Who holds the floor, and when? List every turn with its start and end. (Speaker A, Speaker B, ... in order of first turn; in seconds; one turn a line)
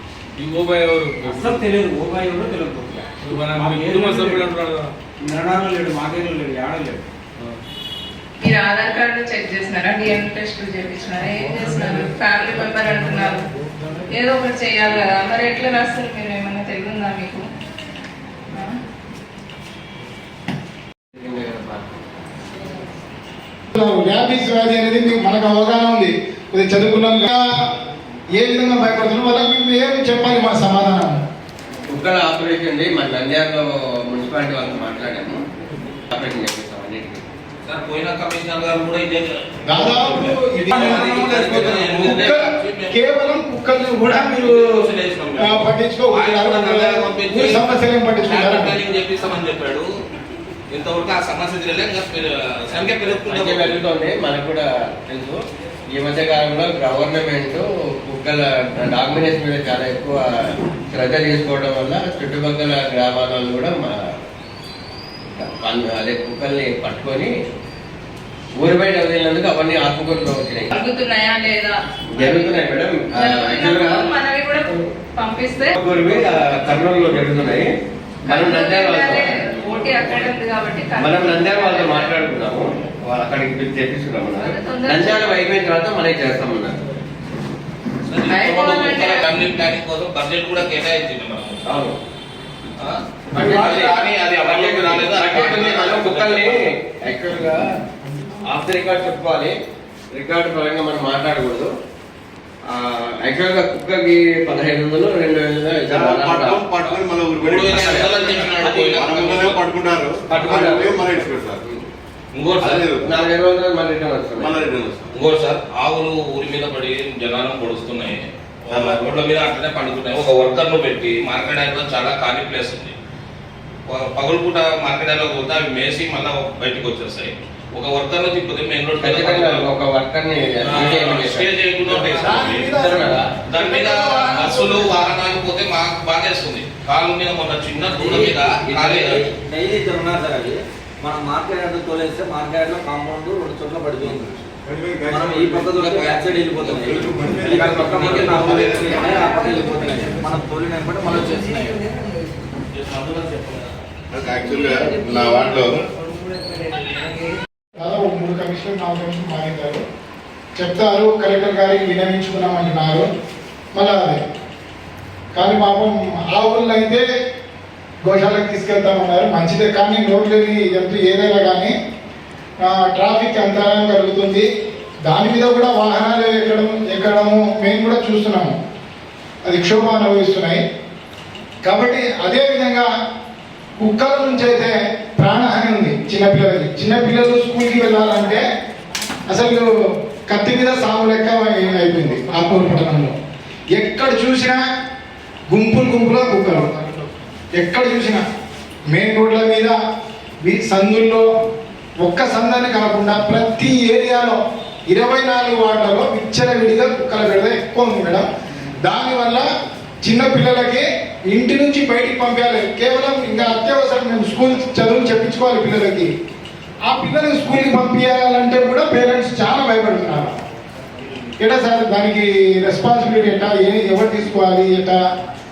Speaker A: 0.4-1.6
Speaker B: 1.3-4.5
Speaker A: 3.2-5.0
Speaker B: 5.2-7.0
Speaker C: 8.4-13.5
Speaker C: 14.1-17.5
Speaker D: 21.1-21.8
Speaker E: 23.7-27.5
Speaker E: 28.4-31.2
Speaker D: 31.9-35.4
Speaker D: 36.1-37.2
Speaker F: 37.6-43.0
Speaker E: 39.7-44.8
Speaker F: 44.1-49.9
Speaker E: 45.4-48.8
Speaker F: 50.7-53.8
Speaker D: 53.3-64.2
Speaker D: 65.2-67.3
Speaker D: 68.6-70.7
Speaker C: 70.7-72.6
Speaker D: 72.1-74.1
Speaker C: 73.1-75.8
Speaker D: 75.8-77.7
Speaker D: 78.2-79.7
Speaker C: 78.3-82.1
Speaker D: 81.0-86.8
Speaker C: 84.3-85.4
Speaker F: 88.1-91.6
Speaker C: 88.3-89.3
Speaker D: 91.7-92.0
Speaker F: 92.8-96.7
Speaker D: 93.3-97.6
Speaker D: 98.5-99.5
Speaker D: 100.1-101.7
Speaker D: 102.7-106.7
Speaker G: 105.9-111.6
Speaker F: 106.8-109.7
Speaker D: 107.7-109.0
Speaker D: 110.3-111.0
Speaker F: 112.3-112.9
Speaker G: 112.6-113.2
Speaker D: 113.0-114.6
Speaker G: 114.4-115.1
Speaker F: 115.1-122.9
Speaker G: 118.7-119.0
Speaker F: 123.9-129.7
Speaker D: 129.0-131.5
Speaker F: 130.6-132.7
Speaker E: 131.9-135.0
Speaker D: 132.3-133.3
Speaker F: 133.5-139.2
Speaker H: 138.0-144.3
Speaker G: 145.1-145.7
Speaker H: 145.1-151.8
Speaker F: 145.7-147.1
Speaker G: 146.9-149.1
Speaker F: 148.4-148.7
Speaker F: 152.7-153.7
Speaker G: 154.1-155.8
Speaker E: 157.8-159.8
Speaker E: 160.6-163.1
Speaker E: 163.8-164.2
Speaker E: 165.3-167.1
Speaker E: 168.1-171.7
Speaker E: 172.6-174.5
Speaker E: 175.1-178.6
Speaker E: 179.4-180.6
Speaker E: 181.6-182.9
Speaker E: 183.8-188.4
Speaker E: 189.3-189.7
Speaker E: 190.3-193.2
Speaker E: 193.8-194.7
Speaker E: 195.5-196.8
Speaker E: 197.6-198.2
Speaker E: 198.9-199.8
Speaker E: 200.4-201.3
Speaker E: 202.0-208.3
Speaker E: 208.8-209.5
Speaker E: 210.0-216.1
Speaker E: 216.8-220.4
Speaker E: 221.4-225.0